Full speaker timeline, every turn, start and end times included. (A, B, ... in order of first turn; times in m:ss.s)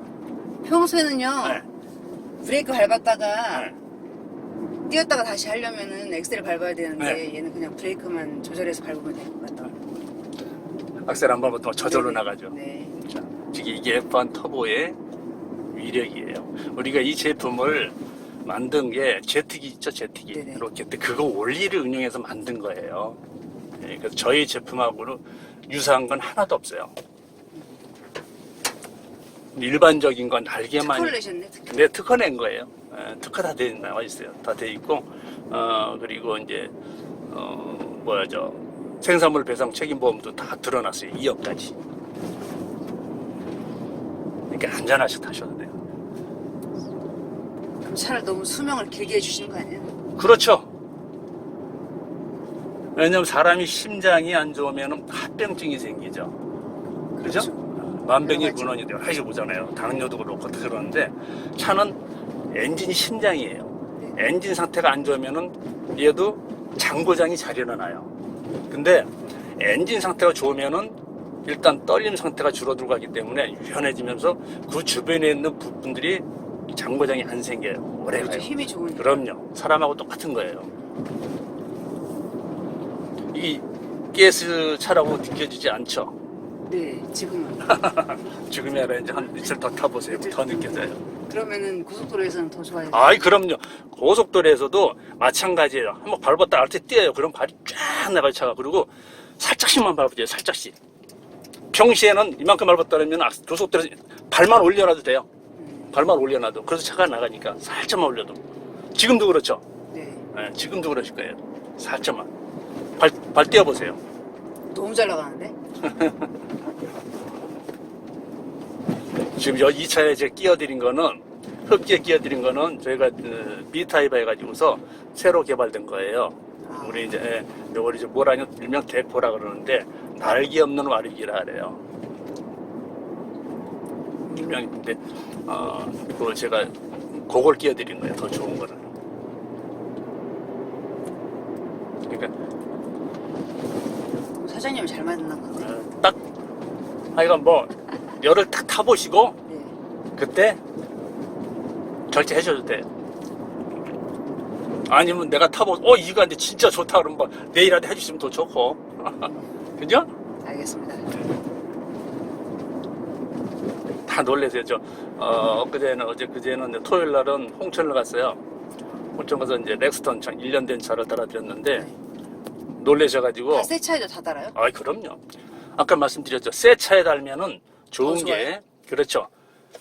0:00.6-0:01.6 A
0:02.4-0:03.7 A
0:04.9-0:09.7 A
0:11.0-0:15.0 B
0:11.8-0:12.9 A
0:15.7-0:23.2 B
0:20.3-0:20.6 A
0:23.8-0:26.9 B
0:27.5-0:27.8 A
0:29.5-0:31.2 B
0:30.8-0:31.8 A
0:31.7-0:36.7 B
0:37.3-0:41.7 B
0:44.5-0:45.7 B
0:47.8-0:49.9 A
0:50.2-0:50.7 B
0:53.0-0:56.3 B
0:57.2-0:57.6 A
0:57.2-1:02.0 B
0:58.2-0:58.7 A
1:02.5-1:08.1 B
1:08.7-1:20.7 B
1:18.1-1:19.2 A
1:23.3-1:26.1 B
1:26.7-1:27.9 A
1:27.6-1:31.0 B
1:29.1-1:33.2 A
1:32.9-1:40.7 B
1:41.7-1:45.2 B
1:45.6-1:46.0 A
1:45.9-1:48.4 B
1:48.9-1:49.6 B
1:49.9-1:50.2 A
1:50.3-1:52.3 B
1:53.0-1:54.0 B
1:54.7-1:55.6 A
1:55.8-1:56.3 B
1:59.3-2:11.8 B
2:06.6-2:07.1 A
2:14.2-2:14.6 A
2:14.3-2:18.9 B
2:22.1-2:22.3 B
2:24.3-2:25.7 A
2:25.6-2:26.2 B
2:27.1-2:29.4 B
2:29.5-2:29.8 A
2:30.2-2:30.6 B
2:32.1-2:32.8 B
2:34.9-2:40.1 B
2:39.2-2:39.5 A
2:40.4-2:41.1 A
2:44.0-2:48.4 B
2:49.2-2:51.9 B
2:52.8-2:53.7 B
2:53.5-2:54.6 A
2:54.5-2:55.2 B
2:55.8-2:59.3 B
2:58.0-2:58.5 A